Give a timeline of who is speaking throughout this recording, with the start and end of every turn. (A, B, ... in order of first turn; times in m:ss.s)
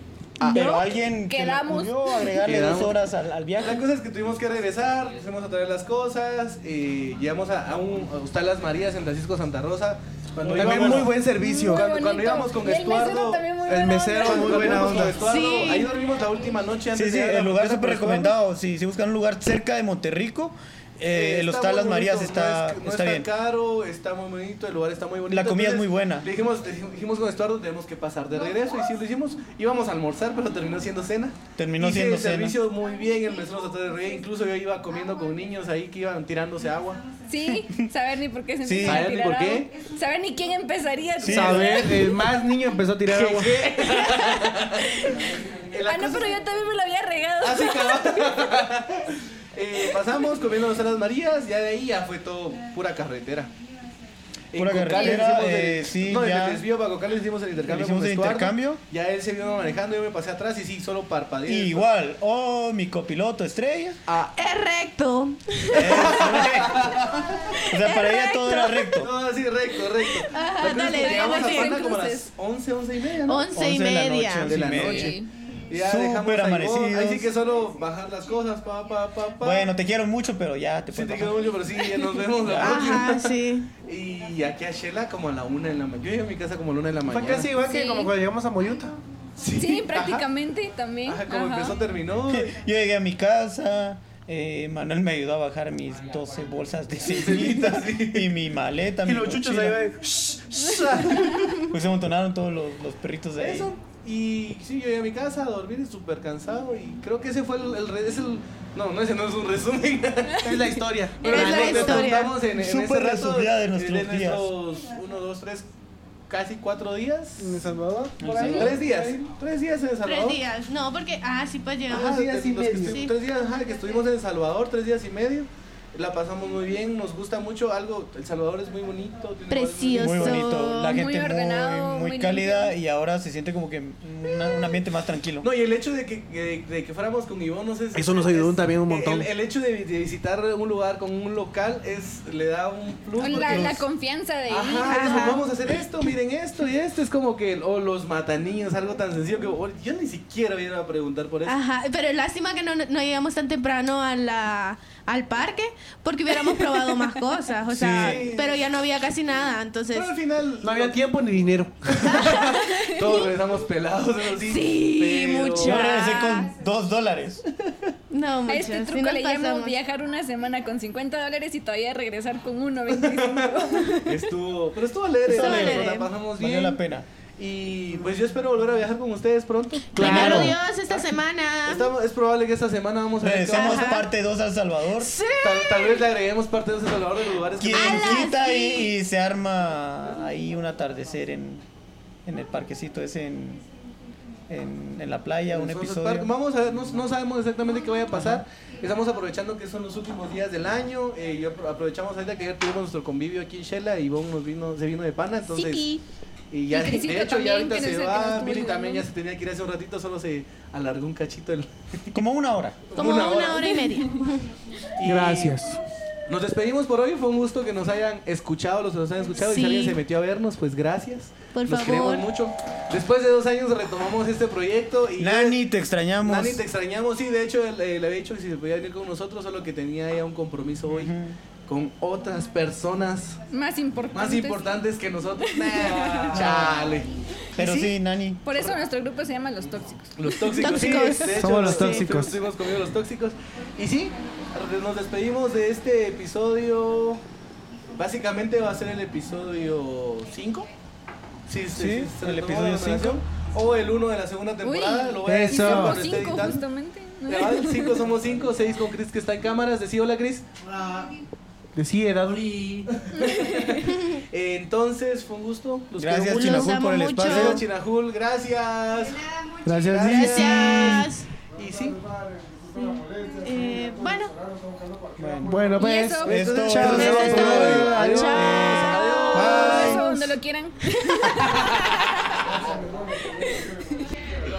0:00.4-0:00.7 A
0:00.4-0:03.8 B
0:00.4-0:02.3 C
0:02.4-0:03.0 A
0:03.6-0:13.4 A
0:10.4-0:11.2 B
0:10.4-0:11.8 D
0:11.4-0:15.1 C
0:13.7-0:15.3 D
0:14.2-0:18.4 A
0:15.2-0:15.9 E
0:16.9-0:23.3 B
0:21.1-0:37.0 A
0:25.3-0:26.3 B
0:31.6-0:32.6 B
0:37.3-0:42.1 C
0:38.6-0:39.1 B
0:38.8-0:39.7 A
0:41.2-0:41.9 B
0:41.2-0:43.7 D
0:41.4-0:42.1 A
0:43.1-0:45.0 A
0:45.0-0:45.3 C
0:45.7-0:46.4 A
0:45.8-0:48.6 C
0:47.4-0:53.5 A
0:54.5-1:01.9 A
0:54.6-0:56.6 B
0:54.9-0:55.2 C
0:57.7-0:58.8 B
1:01.5-1:04.0 B
1:04.1-1:04.3 A
1:04.4-1:06.3 E
1:05.7-1:07.1 B
1:05.7-1:07.4 A
1:07.5-1:08.1 E
1:07.7-1:09.1 B
1:07.8-1:09.0 C
1:09.0-1:13.5 A
1:10.1-1:11.9 E
1:10.8-1:12.3 C
1:13.3-1:14.6 E
1:13.5-1:15.2 B
1:14.4-1:15.2 A
1:14.8-1:15.3 C
1:15.7-1:19.7 A
1:15.7-1:17.3 B
1:19.4-1:21.6 B
1:20.9-1:27.5 A
1:22.4-1:23.0 B
1:22.6-1:23.7 E
1:27.1-1:29.0 D
1:27.6-1:28.1 C
1:29.4-1:30.3 A
1:29.6-1:31.8 C
1:31.1-1:32.5 A
1:32.3-1:39.8 B
1:37.1-1:38.3 A
1:39.0-1:41.6 D
1:40.9-1:41.3 A
1:41.7-1:43.7 B
1:43.4-1:50.7 A
1:50.4-1:52.3 D
1:51.2-1:52.4 E
1:51.2-1:55.7 A
1:52.5-1:54.5 B
1:56.3-1:57.6 A
1:57.4-1:59.2 D
1:58.2-1:58.8 B
1:58.5-2:00.4 A
2:00.0-2:02.2 E
2:01.9-2:10.4 A
2:02.0-2:03.0 D
2:02.9-2:03.1 E
2:09.5-2:11.0 E
2:09.9-2:15.5 B
2:10.8-2:12.7 C
2:15.4-2:23.8 A
2:18.0-2:19.3 D
2:23.2-2:25.4 C
2:24.5-2:31.6 A
2:24.9-2:25.4 E
2:31.4-2:40.1 E
2:37.7-2:38.3 B
2:37.9-2:38.7 A
2:39.9-2:41.0 A
2:40.6-2:42.4 D
2:41.9-2:45.8 A
2:42.7-2:43.2 C
2:44.4-2:46.5 E
2:45.6-2:47.8 B
2:48.1-2:49.7 E
2:48.5-2:54.3 C
2:52.9-2:56.8 A
2:55.3-2:56.1 E
2:55.3-2:57.1 B
2:57.4-3:04.0 A
3:00.0-3:00.6 D
3:00.0-3:01.9 E
3:00.0-3:00.6 B
3:03.2-3:05.2 B
3:03.4-3:04.1 E
3:05.0-3:06.0 E
3:05.4-3:08.2 A
3:07.6-3:11.6 B
3:07.7-3:08.9 E
3:12.3-3:13.6 B
3:14.5-3:16.3 B
3:15.5-3:25.9 A
3:18.1-3:18.4 B
3:25.5-3:26.0 E
3:26.5-3:32.2 A
3:26.7-3:29.0 C
3:32.1-3:33.2 B
3:32.9-3:33.8 A
3:32.9-3:34.5 E
3:35.0-3:35.6 A
3:35.0-3:35.8 D
3:36.3-3:45.6 A
3:39.3-3:40.0 E
3:41.5-3:42.3 E
3:45.2-3:46.6 B
3:46.2-3:51.2 A
3:50.9-3:51.4 B
3:51.6-3:53.4 A
3:53.5-3:54.8 C
3:54.1-3:57.2 A
3:55.4-3:56.5 C
3:56.3-3:56.8 B
3:57.6-3:57.9 C
3:57.6-3:58.4 B
3:58.4-4:00.6 C
4:00.2-4:07.2 A
4:00.6-4:02.1 E
4:01.4-4:02.4 D
4:08.0-4:10.7 A
4:11.5-4:16.6 A
4:11.7-4:13.2 B
4:14.6-4:18.0 C
4:15.3-4:16.0 D
4:17.3-4:21.1 A
4:21.8-4:22.8 D
4:22.9-4:32.0 A
4:23.2-4:23.8 C
4:23.9-4:24.2 E
4:26.0-4:27.6 B
4:26.4-4:27.6 E
4:29.6-4:31.0 D
4:30.0-4:31.3 E
4:33.4-4:34.4 E
4:35.2-4:40.1 B
4:35.4-4:39.0 D
4:35.8-4:36.7 C
4:36.4-4:40.1 A
4:36.8-4:39.6 E
4:39.2-4:42.6 C
4:39.6-4:40.2 D
4:41.2-4:42.2 A
4:43.1-4:44.1 C